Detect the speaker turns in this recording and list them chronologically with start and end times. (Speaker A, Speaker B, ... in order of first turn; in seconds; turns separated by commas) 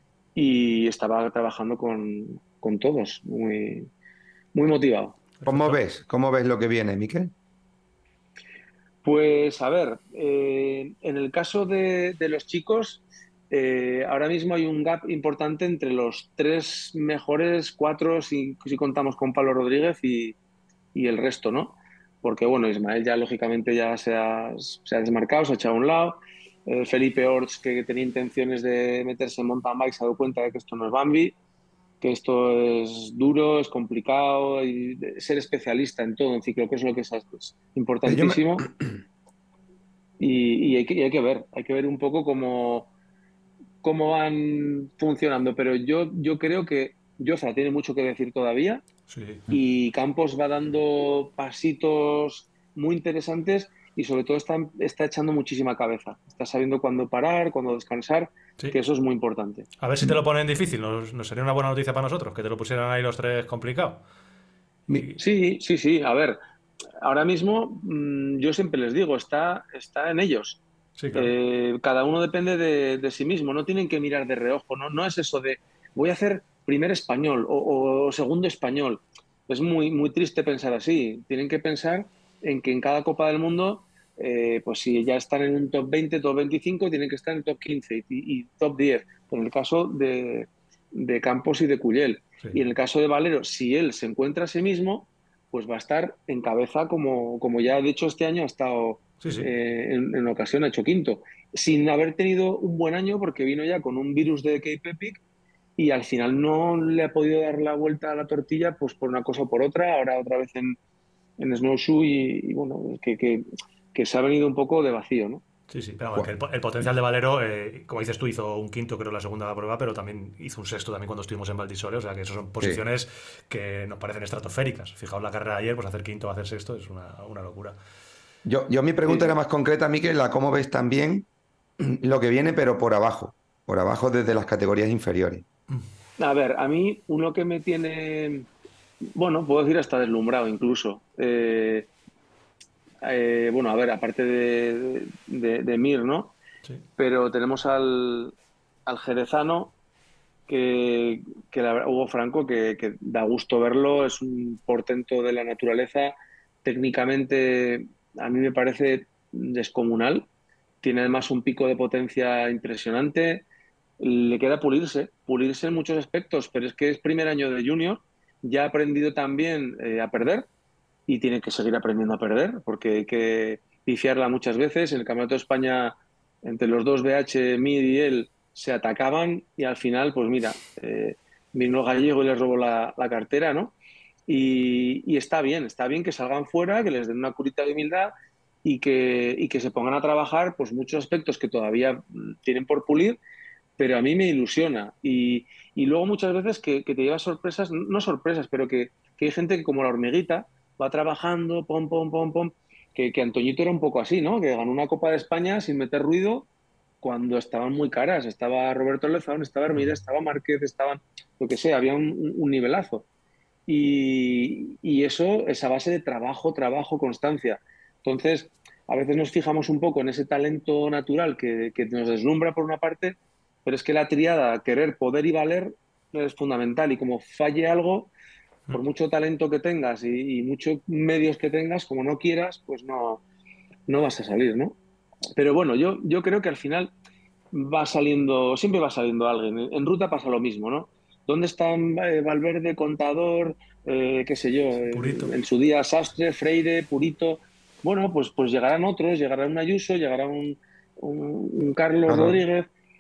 Speaker A: 0.3-3.9, Speaker A: 4.5-5.2, Speaker B: 5.4-5.8, Speaker C: 5.5-7.3, Speaker A: 9.0-20.4, Speaker A: 20.9-31.4, Speaker A: 32.0-38.7, Speaker C: 38.1-38.9, Speaker A: 40.2-42.9, Speaker A: 43.8-48.8, Speaker B: 49.1-49.4, Speaker A: 49.5-59.7, Speaker B: 59.8-64.0, Speaker B: 64.9-65.2, Speaker A: 65.2-66.4, Speaker A: 67.0-70.6, Speaker B: 71.0-71.3, Speaker A: 71.1-105.2, Speaker B: 99.2-99.5, Speaker A: 105.8-110.8, Speaker A: 111.4-115.4, Speaker B: 115.7-127.8, Speaker C: 128.5-131.3, Speaker A: 129.1-129.3, Speaker C: 131.8-135.4, Speaker A: 136.2-138.5, Speaker A: 139.2-141.9, Speaker A: 143.0-146.3, Speaker A: 147.0-148.3, Speaker A: 148.9-149.7, Speaker A: 150.5-160.3, Speaker A: 160.8-163.4, Speaker A: 164.0-170.5, Speaker A: 171.1-183.8, Speaker A: 184.3-188.1, Speaker A: 188.6-193.2, Speaker A: 193.8-206.5, Speaker A: 207.0-213.1, Speaker A: 213.7-228.1, Speaker A: 228.7-233.2, Speaker A: 233.9-234.8, Speaker A: 235.4-236.9, Speaker A: 237.5-252.7, Speaker B: 244.9-245.3